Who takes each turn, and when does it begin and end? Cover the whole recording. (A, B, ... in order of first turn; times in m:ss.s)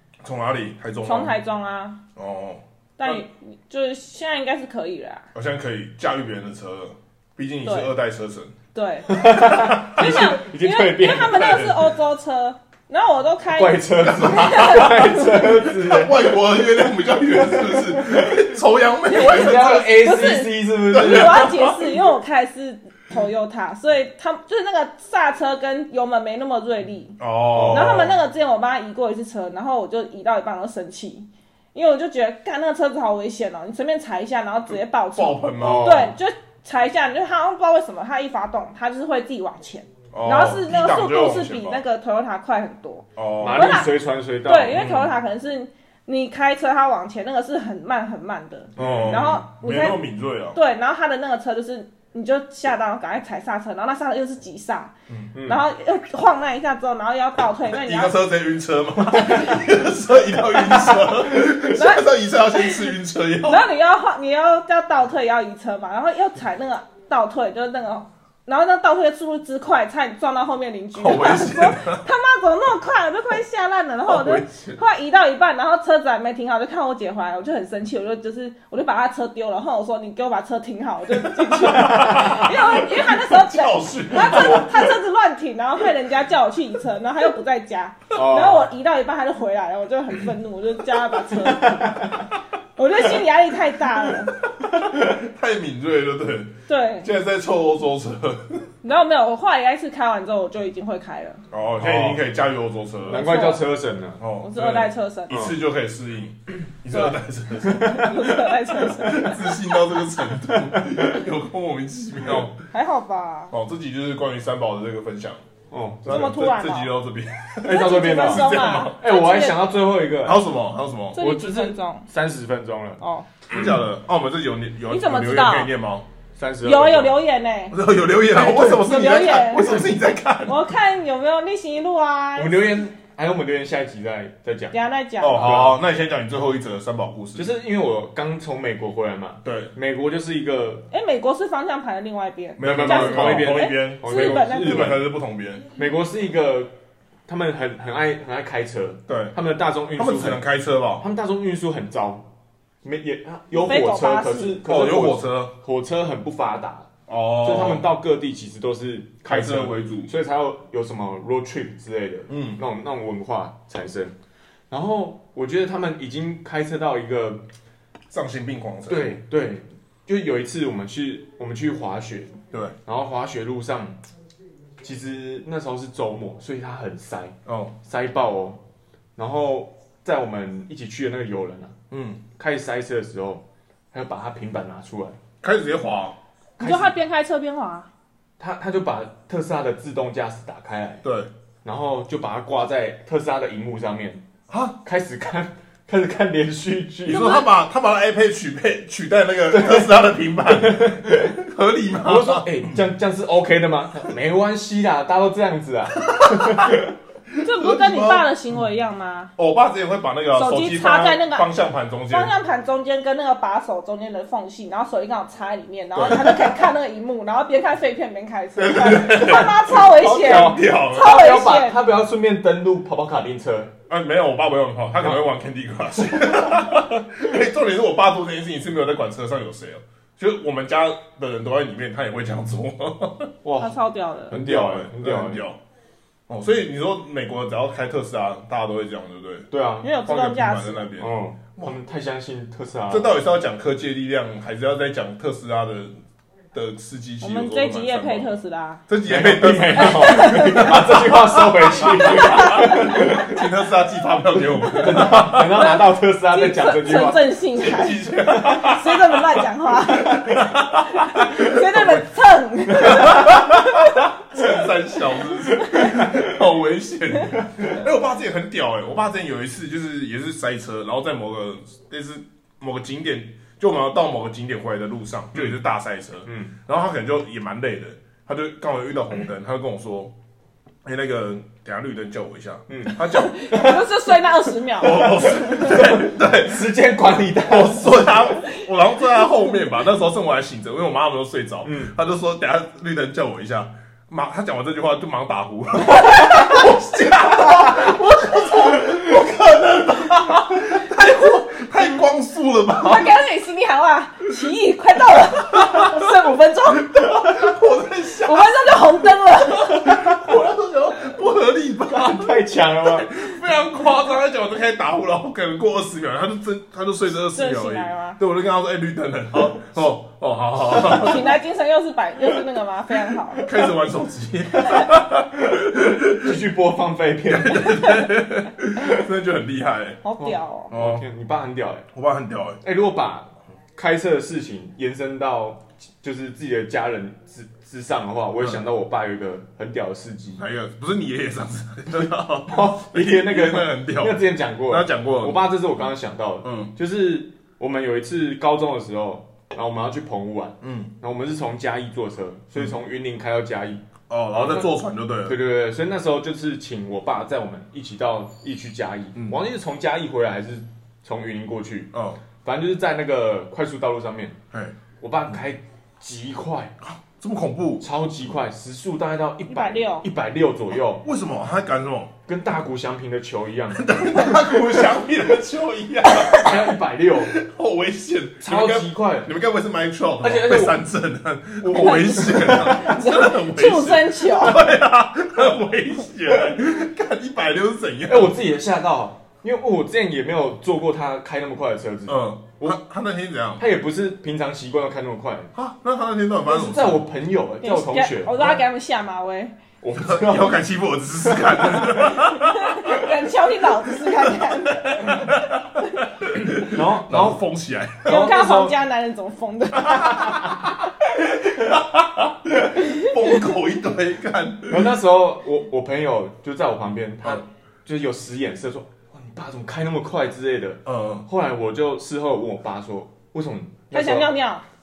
0:00.2-0:01.3 A
0:01.0-0:02.0 B
0:02.2-0:03.2 A
0:03.0-0:05.3 B
0:05.3-0:08.5 A
0:07.6-0:07.9 B
0:08.7-0:15.4 B
0:09.1-0:11.8 C
0:09.3-0:10.3 A
0:13.5-0:18.5 C
0:14.0-0:20.2 A
0:19.1-0:43.9 B
0:19.1-0:21.6 C
0:20.9-0:22.0 A
0:27.2-0:28.2 A
0:27.5-0:28.0 C
0:34.7-0:36.0 A
0:35.6-0:36.1 C
0:40.1-0:41.8 A
0:43.2-0:43.8 A
0:43.4-0:44.9 C
0:44.4-0:50.0 B
0:44.7-0:45.1 A
0:48.8-0:50.6 A
0:48.8-0:49.4 C
0:50.5-0:54.9 B
0:55.3-0:55.6 C
0:55.4-0:58.1 B
0:57.7-1:03.6 A
0:59.2-0:59.5 B
1:01.5-1:02.9 B
1:03.4-1:34.4 B
1:10.9-1:12.0 A
1:14.0-1:14.8 A
1:21.1-1:24.9 A
1:28.1-1:28.7 C
1:31.5-1:32.2 C
1:34.6-1:38.7 A
1:34.6-1:35.1 C
1:36.7-1:37.1 B
1:38.8-1:41.4 B
1:41.5-1:43.3 A
1:41.8-1:42.2 C
1:43.0-1:44.2 C
1:43.1-1:43.7 B
1:44.2-1:52.5 A
1:44.4-1:45.5 B
1:46.9-1:47.2 B
1:47.6-1:48.3 C
1:47.8-1:49.8 B
1:50.4-1:51.2 C
1:52.7-1:53.5 B
1:53.5-1:55.4 A
1:55.7-1:56.3 C
1:56.0-1:59.0 A
1:56.0-1:56.9 B
1:57.6-1:59.6 B
1:57.6-2:00.4 C
2:00.2-2:01.2 A
2:01.1-2:02.1 B
2:01.2-2:03.7 C
2:03.0-2:03.3 B
2:03.5-2:06.1 A
2:04.9-2:05.7 B
2:06.4-2:07.2 C
2:06.6-2:07.8 B
2:07.7-2:10.7 A
2:08.3-2:08.8 C
2:08.4-2:09.9 B
2:10.4-2:12.6 B
2:12.4-2:14.8 C
2:14.7-2:15.7 B
2:15.2-2:17.5 A
2:15.3-2:15.8 C
2:17.4-2:20.9 C
2:19.4-2:19.7 A
2:20.9-2:25.0 B
2:22.6-2:25.6 A
2:22.6-2:25.0 C
2:25.7-2:26.7 C
2:27.3-2:30.4 C
2:29.1-2:29.3 A
2:29.9-2:31.0 A
2:31.0-2:32.3 C
2:32.8-2:36.9 C
2:33.5-2:34.6 B
2:34.6-2:35.5 A
2:37.1-2:37.9 A
2:37.4-2:44.1 C
2:39.2-2:40.1 A
2:42.3-2:42.6 A
2:44.7-2:47.4 C
2:48.1-2:49.2 A
2:48.9-2:54.0 C
2:54.8-2:58.6 C
2:57.4-2:57.7 A
2:59.2-3:01.8 C
3:01.9-3:02.2 A
3:02.3-3:05.2 C
3:05.4-3:06.2 A
3:06.6-3:06.9 C
3:06.6-3:07.9 B
3:08.4-3:11.0 C
3:11.0-3:11.3 A
3:11.6-3:14.2 C
3:14.5-3:14.8 A
3:14.8-3:17.3 C
3:17.1-3:22.8 A
3:17.1-3:17.5 B
3:19.5-3:19.9 C
3:20.4-3:21.4 C
3:22.0-3:26.9 C
3:26.1-3:26.8 A
3:27.3-3:28.3 A
3:27.4-3:29.3 B
3:29.4-3:32.3 A
3:30.3-3:31.5 B
3:32.1-3:41.8 B
3:35.9-3:36.7 A
3:38.6-3:41.2 A
3:40.0-3:43.7 C
3:43.9-3:53.3 A
3:53.4-3:53.8 C
3:53.6-3:54.3 B
3:54.3-3:55.4 C
3:54.3-3:55.6 A
3:56.3-3:59.5 A
3:59.5-3:59.9 C
3:59.8-4:00.9 B
4:00.0-4:01.8 A
4:01.0-4:03.1 C
4:02.9-4:05.9 A
4:06.5-4:08.3 A
4:07.2-4:08.8 B
4:08.9-4:15.6 A
4:09.0-4:13.4 C
4:09.7-4:11.1 B
4:11.8-4:13.2 B
4:14.7-4:17.2 C
4:14.7-4:24.1 B
4:17.5-4:22.0 A
4:22.8-4:40.1 A
4:25.6-4:26.0 B
4:25.7-4:26.3 C
4:36.2-4:36.5 C
4:40.8-4:43.4 A
4:42.7-4:43.8 C
4:43.1-4:45.9 B
4:44.8-4:46.7 A
4:45.0-4:48.2 C
4:47.4-5:03.2 A
4:48.4-4:49.5 B
4:51.6-4:51.9 C
4:56.1-4:56.5 B
4:57.3-4:57.7 B
4:58.4-4:58.7 B
5:00.8-5:01.4 B
5:02.7-5:07.5 B
5:05.3-5:21.4 A
5:08.1-5:10.2 B
5:10.1-5:10.5 C
5:11.9-5:13.1 C
5:17.3-5:18.2 B
5:20.8-5:23.5 B
5:23.4-5:26.4 A
5:24.7-5:28.1 C
5:27.3-5:30.0 A
5:28.8-5:29.0 C
5:30.0-5:30.7 B
5:30.2-5:31.9 C
5:30.7-5:31.0 A
5:31.9-5:32.6 A
5:32.6-5:40.4 C
5:40.4-5:45.4 A
5:42.5-5:54.7 C
5:46.4-5:46.7 A
5:50.6-5:50.9 A
5:54.1-5:55.4 A
5:55.2-6:01.9 C
6:01.9-6:02.2 A
6:02.4-6:04.4 C
6:05.0-6:06.7 C
6:06.8-6:07.8 A
6:07.8-6:11.0 C
6:09.4-6:10.0 B
6:11.0-6:12.1 A
6:12.3-6:14.0 C
6:13.7-6:28.4 A
6:16.0-6:17.3 C
6:18.4-6:19.3 C
6:20.2-6:20.8 C
6:21.6-6:22.3 C
6:21.7-6:24.6 B
6:28.0-6:32.8 C
6:32.1-6:33.7 A
6:33.6-6:35.5 C
6:35.5-6:37.0 A
6:36.4-6:38.6 C
6:37.6-6:39.6 B
6:39.8-6:40.6 C
6:40.0-6:43.1 A
6:41.2-6:42.1 C
6:42.2-6:45.3 B
6:43.9-6:48.3 A
6:46.3-6:47.4 C
6:48.0-6:48.8 C
6:48.0-6:50.8 B
6:49.8-6:50.7 A
6:51.3-6:54.9 A
6:52.8-6:53.3 B
6:54.7-7:04.3 C
7:00.8-7:01.2 A
7:03.9-7:04.6 B